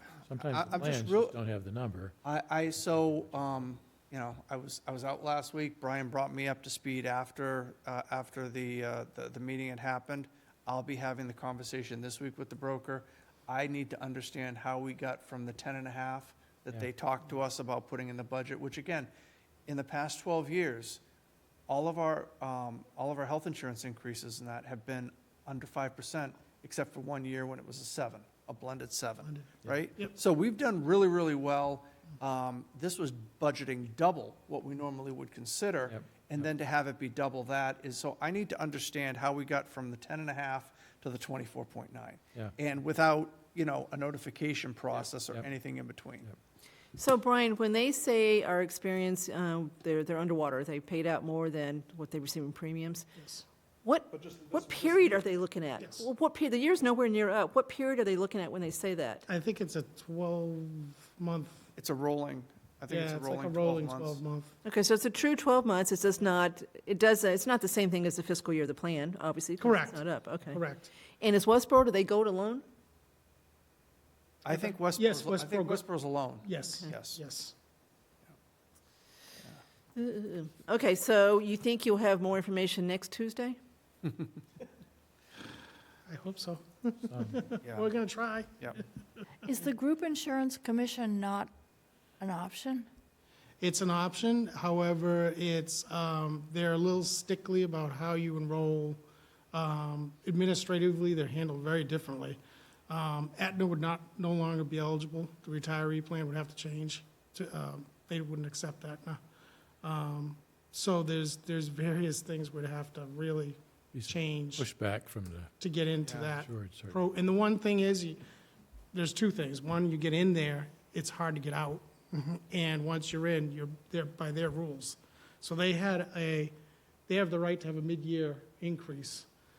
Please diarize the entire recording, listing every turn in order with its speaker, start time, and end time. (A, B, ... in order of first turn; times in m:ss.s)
0:00.3-0:02.1 A
0:00.4-0:01.4 B
0:02.2-0:19.1 B
0:19.7-0:21.0 B
0:21.7-0:46.3 B
0:29.2-0:30.1 C
0:47.0-0:53.1 D
0:53.2-0:53.4 C
0:53.8-0:59.2 D
0:55.8-0:56.1 C
0:59.3-1:01.7 C
1:01.8-1:04.2 B
1:02.9-1:04.6 C
1:04.6-1:10.6 D
1:09.6-1:10.9 C
1:11.2-1:12.6 D
1:14.4-1:17.2 B
1:14.5-1:15.8 C
1:16.4-1:17.6 C
1:20.0-1:23.6 D
1:26.1-1:28.8 C
1:27.1-1:27.5 A
1:27.6-1:27.9 B
1:29.5-1:31.5 E
1:32.2-1:32.9 E
1:33.6-1:39.0 C
1:39.5-1:49.2 C
1:49.8-1:54.7 C
1:53.9-1:55.5 A
1:55.6-1:58.2 C
1:56.0-1:56.3 B
1:56.3-1:57.0 A
1:58.9-2:06.5 C
2:07.1-2:09.3 C